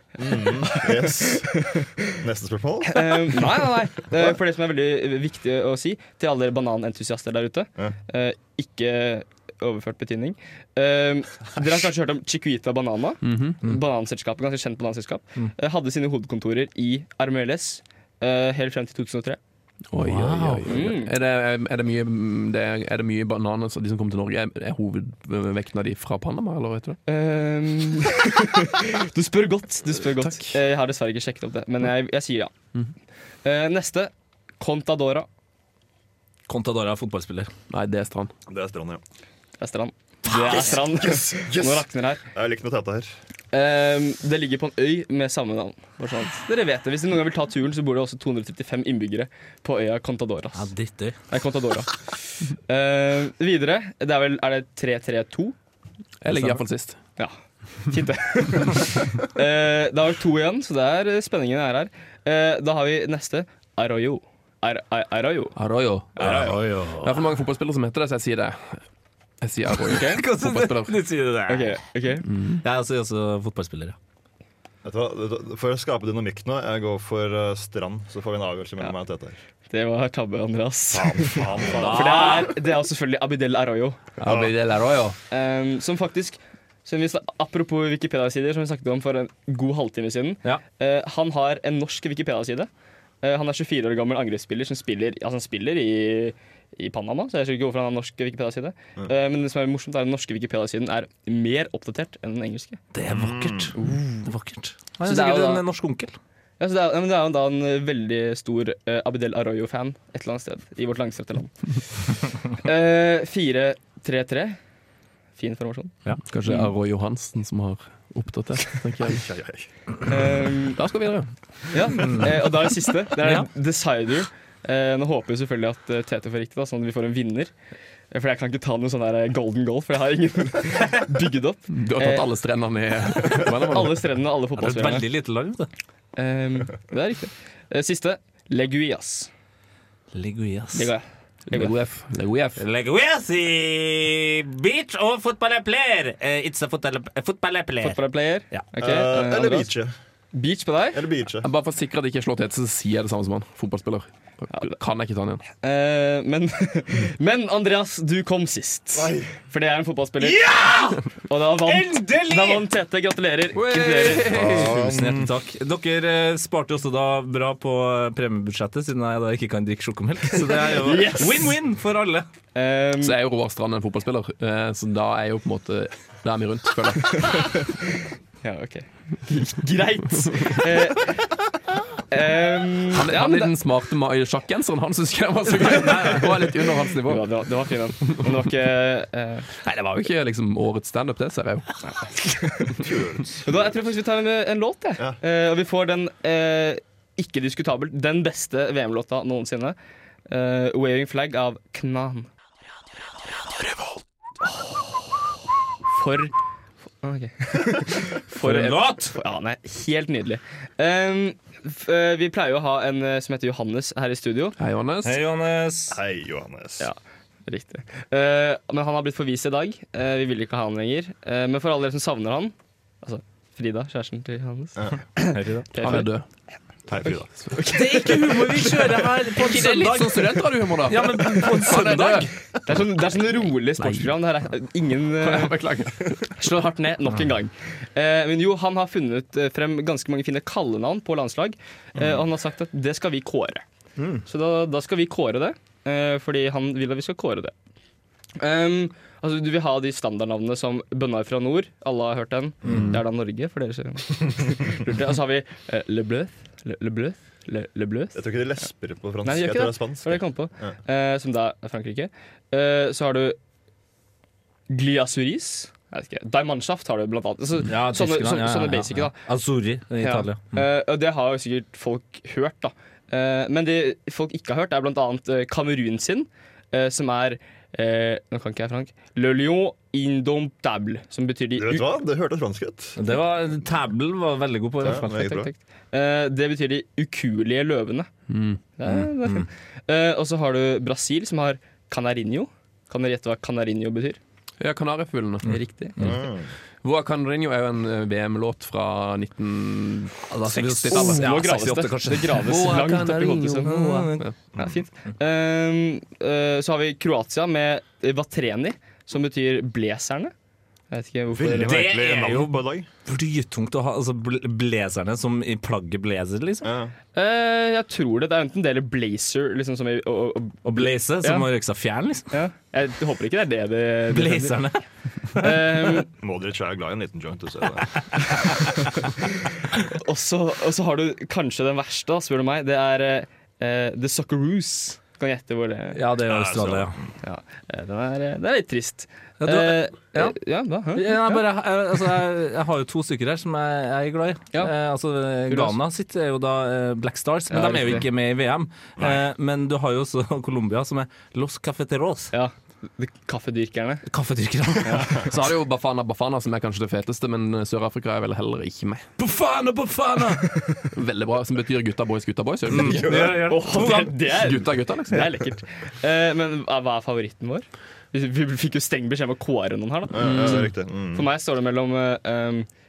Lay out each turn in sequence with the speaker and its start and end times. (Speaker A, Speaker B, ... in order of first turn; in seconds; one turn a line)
Speaker A: 0.2-4.4
Speaker B: 0.2-1.9
Speaker B: 2.9-19.4
Speaker C: 13.2-13.6
Speaker C: 19.9-27.0
Speaker D: 20.0-20.9
Speaker B: 20.7-21.1
Speaker B: 27.1-32.5
Speaker C: 30.2-30.6
Speaker B: 33.4-35.2
Speaker D: 36.5-37.5
Speaker C: 37.7-38.3
Speaker A: 38.5-39.0
Speaker B: 39.6-42.2
Speaker A: 40.3-43.1
Speaker B: 43.5-50.7
Speaker D: 50.5-51.2
Speaker B: 51.3-55.5
Speaker C: 56.2-57.0
Speaker D: 56.3-56.6
Speaker B: 57.9-65.5
Speaker C: 65.5-66.1
Speaker B: 66.2-66.6
Speaker D: 66.2-67.1
Speaker C: 67.0-68.8
Speaker C: 69.4-70.9
Speaker B: 69.9-70.2
Speaker D: 69.9-71.8
Speaker B: 71.5-72.3
Speaker C: 72.3-72.6
Speaker D: 72.6-74.0
Speaker A: 74.8-79.4
Speaker B: 79.7-84.0
Speaker A: 80.9-82.3
Speaker D: 81.7-82.5
Speaker A: 84.2-84.5
Speaker D: 84.2-85.1
Speaker C: 84.3-85.1
Speaker B: 85.3-92.7
Speaker B: 93.2-102.8
Speaker D: 102.9-106.1
Speaker A: 103.1-103.7
Speaker B: 103.8-104.3
Speaker B: 105.0-105.6
Speaker B: 106.6-114.6
Speaker B: 115.4-116.0
Speaker C: 116.2-119.2
Speaker A: 119.1-120.1
Speaker B: 120.1-120.8
Speaker C: 120.8-121.3
Speaker B: 121.7-127.5
Speaker D: 122.0-122.3
Speaker D: 123.2-123.5
Speaker B: 128.1-132.3
Speaker C: 131.7-134.0
Speaker B: 133.3-135.1
Speaker D: 134.5-135.7
Speaker B: 136.2-139.3
Speaker D: 140.1-140.9
Speaker B: 140.7-141.7
Speaker C: 141.5-142.6
Speaker D: 142.6-148.0
Speaker B: 147.8-149.7
Speaker A: 148.8-149.9
Speaker B: 150.3-151.0
Speaker A: 150.9-151.5
Speaker C: 151.4-155.4
Speaker B: 155.6-160.7
Speaker A: 158.9-159.3
Speaker D: 160.2-162.7
Speaker B: 161.3-164.3
Speaker C: 163.5-164.8
Speaker A: 164.3-165.3
Speaker D: 164.3-172.2
Speaker B: 170.4-171.5
Speaker B: 172.5-173.1
Speaker C: 173.0-177.4
Speaker B: 177.3-181.4
Speaker B: 182.1-183.5
Speaker C: 182.9-187.2
Speaker D: 185.6-186.3
Speaker B: 186.9-189.4
Speaker C: 189.6-191.7
Speaker A: 192.8-193.6
Speaker B: 193.4-199.8
Speaker B: 200.3-202.3
Speaker B: 204.4-206.3
Speaker B: 207.0-214.5
Speaker D: 208.4-209.2
Speaker C: 214.6-215.2
Speaker D: 215.0-216.0
Speaker A: 215.9-216.9
Speaker B: 216.8-226.1
Speaker D: 225.3-226.0
Speaker C: 225.8-226.2
Speaker A: 226.9-227.4
Speaker B: 227.0-229.1
Speaker D: 227.7-232.3
Speaker C: 229.4-232.3
Speaker B: 232.6-235.6
Speaker C: 233.8-234.1
Speaker C: 235.2-236.3
Speaker B: 236.3-243.6
Speaker A: 241.9-242.2
Speaker D: 244.0-244.2
Speaker B: 244.2-247.5
Speaker B: 248.4-258.2
Speaker D: 252.7-253.0
Speaker A: 258.1-260.7
Speaker B: 259.2-263.4
Speaker B: 264.7-269.1
Speaker D: 267.6-270.6
Speaker B: 270.0-281.9
Speaker A: 281.6-283.0
Speaker D: 283.0-285.3
Speaker A: 284.8-285.5
Speaker B: 284.8-288.1
Speaker C: 288.3-288.6
Speaker B: 288.8-294.2
Speaker D: 288.9-289.5
Speaker C: 294.6-295.5
Speaker D: 295.4-296.1
Speaker B: 295.5-296.2
Speaker A: 296.0-296.5
Speaker C: 296.8-304.3
Speaker D: 300.5-302.7
Speaker B: 300.9-303.7
Speaker D: 303.6-304.3
Speaker A: 304.5-304.8
Speaker B: 304.6-310.3
Speaker B: 310.9-311.9
Speaker A: 311.3-312.9
Speaker D: 311.6-316.7
Speaker A: 316.6-316.9
Speaker B: 317.1-321.4
Speaker D: 320.6-322.3
Speaker B: 322.3-324.6
Speaker D: 324.1-324.8
Speaker D: 325.3-325.8
Speaker B: 325.4-326.1
Speaker A: 326.1-328.2
Speaker B: 329.8-336.0
Speaker D: 335.9-337.0
Speaker A: 336.2-337.1
Speaker B: 337.2-341.4
Speaker D: 339.4-340.4
Speaker D: 340.9-352.3
Speaker B: 345.5-345.7
Speaker B: 347.5-348.0
Speaker B: 352.3-354.0
Speaker D: 354.1-355.2
Speaker B: 354.8-355.2
Speaker C: 355.2-359.1
Speaker D: 359.2-360.6
Speaker C: 360.9-363.1
Speaker D: 362.7-364.1
Speaker A: 362.8-363.4
Speaker B: 363.4-372.7
Speaker C: 364.3-365.3
Speaker A: 370.1-371.3
Speaker C: 370.2-370.7